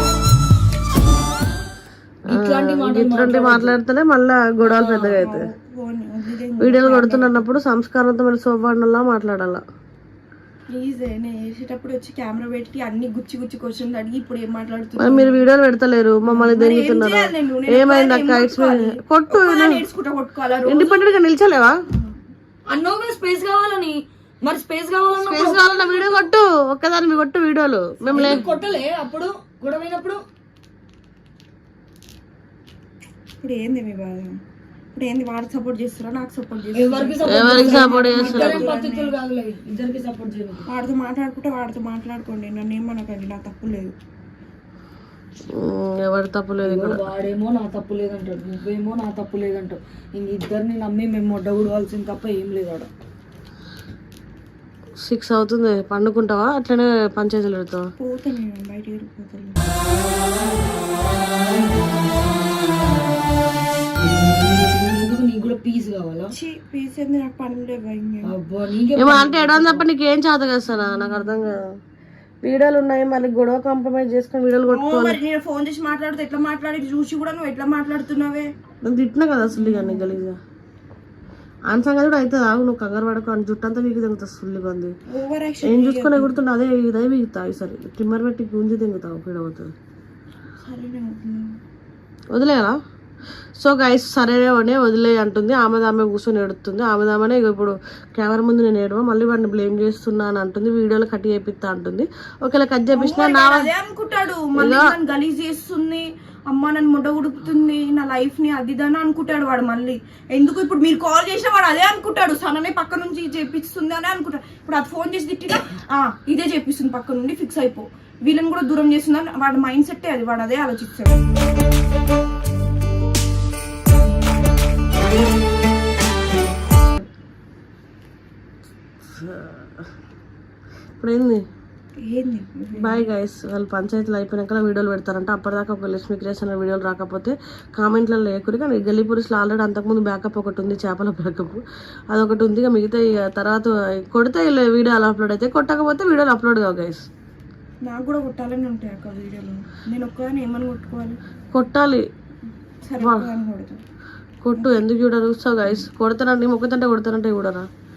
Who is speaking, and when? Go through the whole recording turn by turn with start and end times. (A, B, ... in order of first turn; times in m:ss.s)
0:02.3-0:03.8 A
0:02.3-0:05.4 B
0:04.6-0:07.5 C
0:06.6-0:09.6 B
0:10.7-0:15.4 C
0:15.0-0:19.8 B
0:16.2-0:21.0 C
0:20.6-0:21.7 B
0:21.9-0:22.2 C
0:22.7-0:25.8 A
0:25.2-0:28.4 B
0:25.7-0:26.2 C
0:28.1-0:28.8 C
0:28.1-0:30.2 A
0:33.4-0:34.3 C
0:34.9-0:39.1 C
0:36.7-0:40.7 A
0:37.3-0:38.7 B
0:40.6-0:43.9 C
0:45.5-0:47.0 B
0:46.6-0:52.9 A
0:55.0-0:57.9 B
0:58.0-0:59.6 C
1:04.0-1:06.3 A
1:06.3-1:08.3 C
1:08.2-1:09.8 A
1:09.0-1:11.6 B
1:12.4-1:15.2 B
1:14.7-1:18.5 C
1:18.8-1:20.4 B
1:19.5-1:20.2 C
1:21.7-1:24.9 B
1:25.1-1:26.3 C
1:25.6-1:29.7 B
1:30.6-1:31.5 C
1:32.3-1:32.7 B
1:33.6-1:43.7 B
1:42.9-2:01.2 C
1:44.6-1:44.9 B
2:09.2-2:09.8 B
2:11.0-2:11.4 B
2:12.0-2:13.0 C
2:12.8-2:27.1 B
2:27.8-2:31.2 C
2:31.5-2:32.0 B
2:32.8-2:33.8 C
2:33.0-2:33.3 B
2:34.4-2:37.7 B